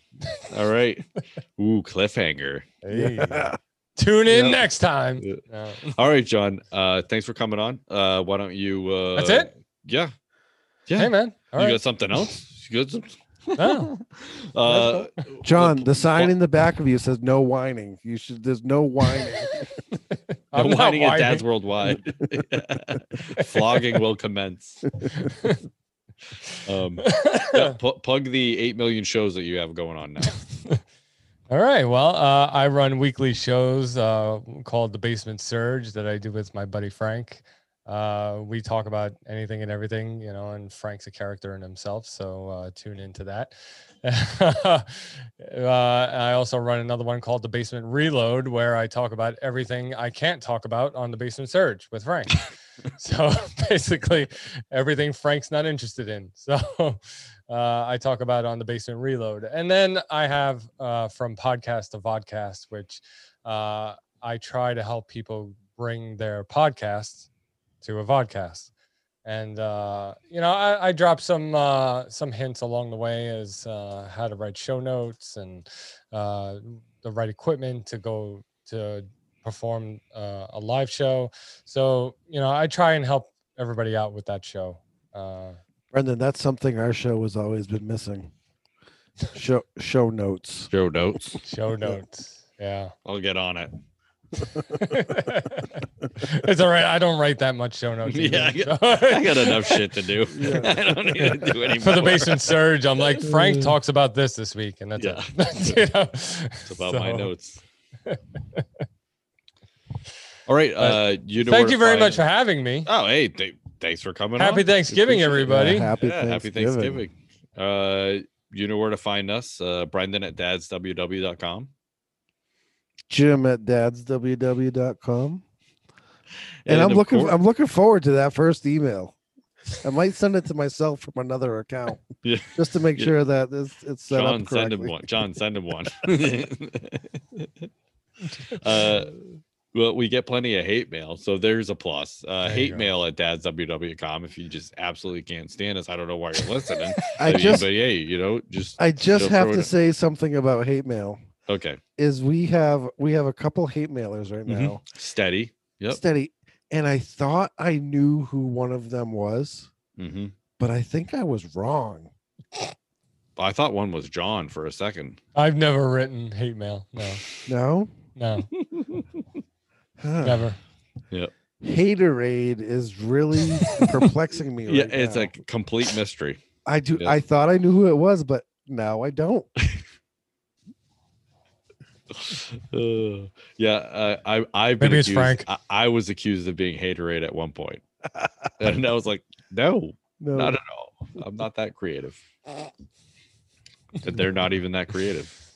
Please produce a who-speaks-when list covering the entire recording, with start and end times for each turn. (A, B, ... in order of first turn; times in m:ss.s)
0:00.5-0:02.6 A
0:02.8-0:05.9 B
0:02.9-0:03.6 C
0:04.3-0:04.6 C
0:05.2-0:10.1 A
0:09.1-0:09.5 B
0:10.9-0:16.4 A
0:11.0-0:11.8 B
0:13.6-0:13.9 B
0:14.7-0:15.1 B
0:15.4-0:19.7 C
0:20.5-0:21.4 B
0:20.5-0:24.9 A
0:25.1-0:25.6 B
0:26.6-0:30.4 A
0:27.0-0:27.7 B
0:31.5-1:07.3 B
1:07.8-1:08.7 B
1:09.2-1:25.6 B
1:25.9-1:28.3 C
1:29.3-1:30.7 C
1:30.7-1:31.4 A
1:31.4-1:32.9 B
1:33.0-1:33.7 A
1:34.6-1:39.8 B
1:38.0-1:43.7 A
1:40.3-1:41.3 C
1:41.8-1:47.3 B
1:45.0-1:45.8 A
1:46.7-1:47.6 A
1:48.1-1:48.6 B
1:50.5-1:52.2 A
1:50.8-1:52.9 B
1:52.8-2:01.7 A
1:54.4-1:55.9 B
1:55.4-1:57.0 C
2:03.1-2:05.4 C
2:06.6-2:07.4 A
2:06.7-2:09.2 C
2:09.8-2:15.0 C
2:12.2-2:13.1 A
2:14.1-2:17.7 A
2:18.4-2:19.2 A
2:19.7-2:29.7 A
2:22.4-2:22.9 B
2:27.2-2:27.7 C
2:28.8-2:31.2 C
2:31.5-2:31.8 A
2:32.0-2:34.8 C
2:34.5-2:36.0 A
2:35.9-2:39.7 C
2:40.0-2:40.3 A
2:40.6-2:42.1 C
2:43.4-2:45.2 A
2:45.3-2:47.2 B
2:47.5-2:47.9 C
2:48.2-2:48.5 B
2:48.6-2:49.1 A
2:50.0-2:50.5 C
2:50.2-2:50.6 B
2:51.6-2:55.3 C
2:53.6-2:54.1 A
2:54.6-2:56.4 A
2:56.6-2:59.5 C
3:02.1-3:07.8 A
3:04.8-3:05.4 B
3:08.2-3:08.5 C
3:08.6-3:12.2 A
3:10.2-3:10.6 C
3:14.0-3:15.3 A